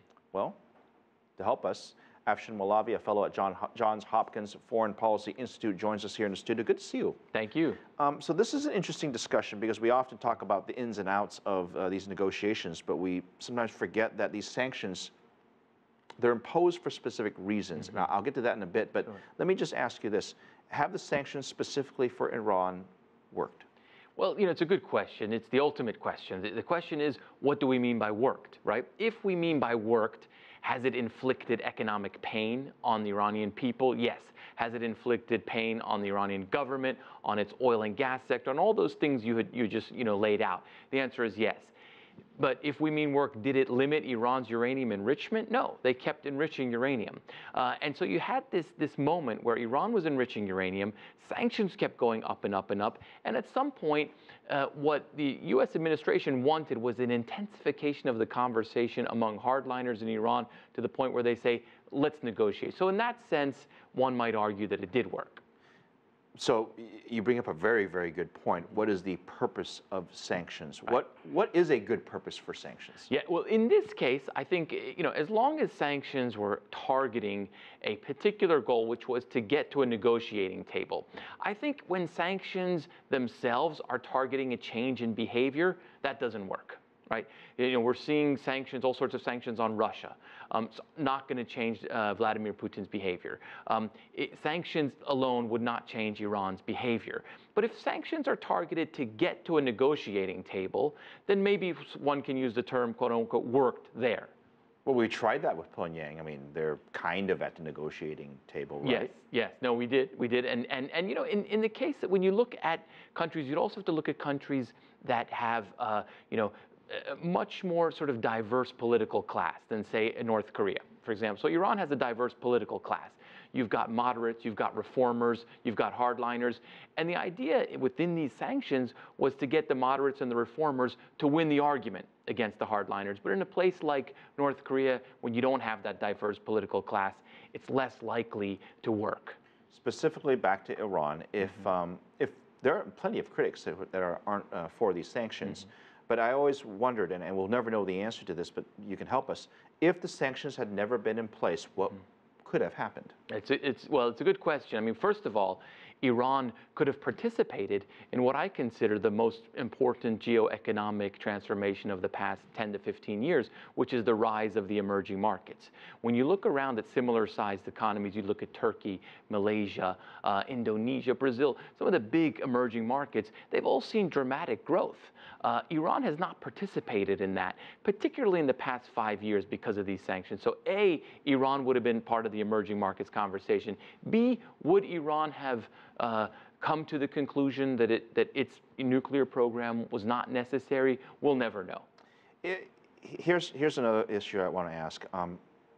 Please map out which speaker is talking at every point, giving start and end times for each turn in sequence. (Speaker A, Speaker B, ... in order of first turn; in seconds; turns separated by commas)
Speaker A: 1.4-7.2, Speaker B: 7.3-7.8, Speaker A: 8.0-15.1, Speaker A: 16.2-23.6, Speaker B: 24.2-41.7, Speaker B: 42.4-65.4, Speaker A: 66.3-73.1, Speaker B: 73.1-104.3, Speaker A: 104.8-109.1, Speaker B: 108.8-139.4, Speaker A: 139.7-153.1, Speaker B: 153.3-191.8, Speaker A: 192.4-195.4